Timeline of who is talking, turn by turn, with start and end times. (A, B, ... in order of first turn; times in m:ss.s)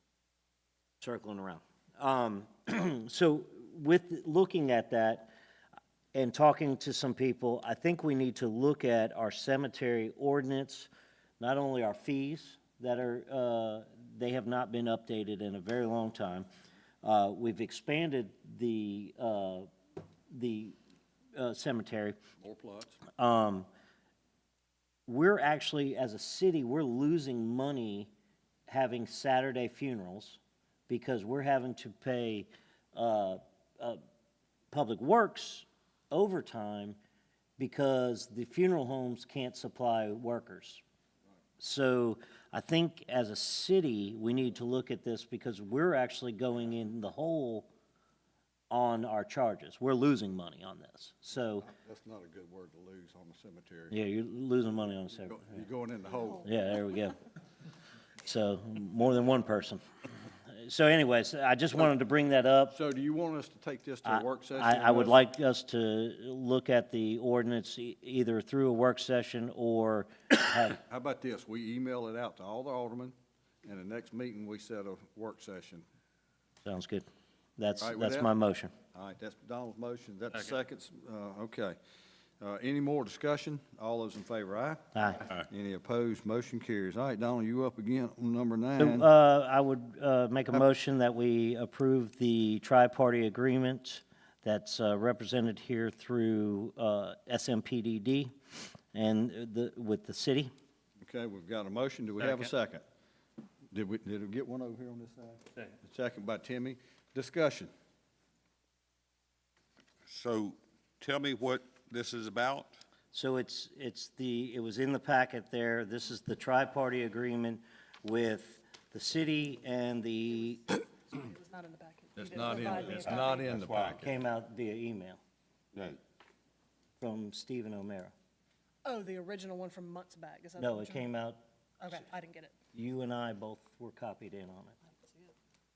0:01.0-0:05.3 A
0:06.1-0:10.9 A
0:11.4-0:16.5 A
0:17.0-0:19.7 A
0:20.3-0:20.8 A
0:21.4-0:22.2 A
0:22.4-0:23.0 B
0:23.2-0:23.7 A
0:25.1-0:28.1 A
0:28.7-0:34.0 A
0:34.7-0:37.0 A
0:37.6-0:40.8 A
0:41.6-0:47.7 A
0:48.7-0:51.7 A
0:51.6-0:54.0 B
0:53.9-0:55.5 A
0:55.2-0:56.5 B
0:56.4-0:57.2 A
0:58.2-0:59.8 A
1:00.5-1:02.8 A
1:02.7-1:05.2 B
1:04.0-1:10.8 A
1:10.8-1:15.8 B
1:16.6-1:17.1 A
1:17.6-1:18.7 A
1:17.8-1:18.3 B
1:18.9-1:21.8 B
1:22.4-1:29.1 B
1:25.0-1:25.2 A
1:28.8-1:38.3 A
1:38.9-1:40.5 A
1:41.0-1:42.8 B
1:43.7-1:47.7 B
1:50.1-1:52.8 C
1:53.1-2:00.8 A
2:01.1-2:03.6 D
2:02.2-2:04.1 B
2:02.7-2:04.1 C
2:04.0-2:05.2 A
2:05.7-2:06.0 C
2:07.0-2:08.1 A
2:08.8-2:11.0 D
2:10.6-2:11.4 A
2:11.8-2:12.6 D
2:12.7-2:14.8 A